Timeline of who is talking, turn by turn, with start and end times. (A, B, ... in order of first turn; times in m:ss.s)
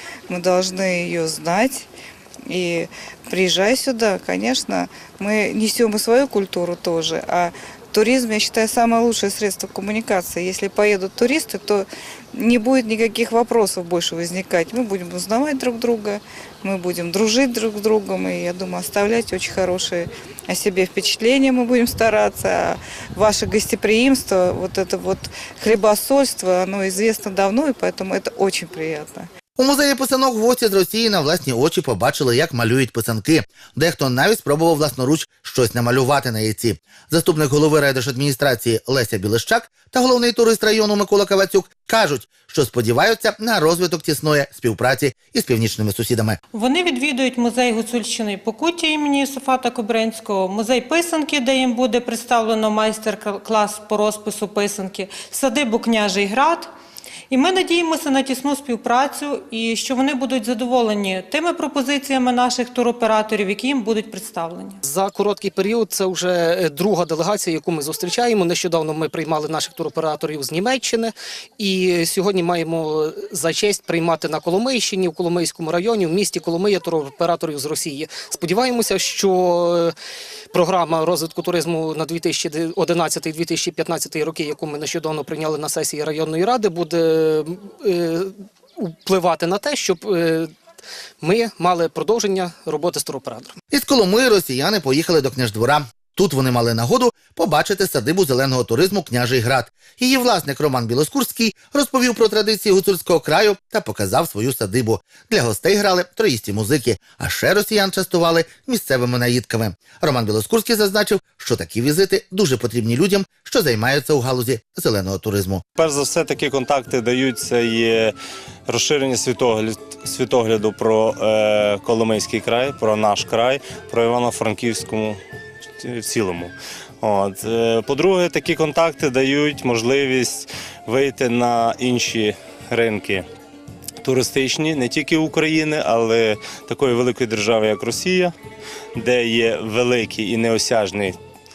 0:00.3-0:01.9 A
0:02.5-0:29.3 A
0:29.6-0:46.4 B
0:46.5-0:56.7 C
0:57.3-1:04.8 C
1:04.8-1:19.9 D
1:20.5-1:30.5 D
1:31.2-1:33.6 D
1:33.7-1:55.6 B
1:55.8-1:58.2 E
1:58.7-2:05.2 E
2:05.8-2:13.3 E
2:14.0-2:18.3 E
2:19.0-2:21.2 E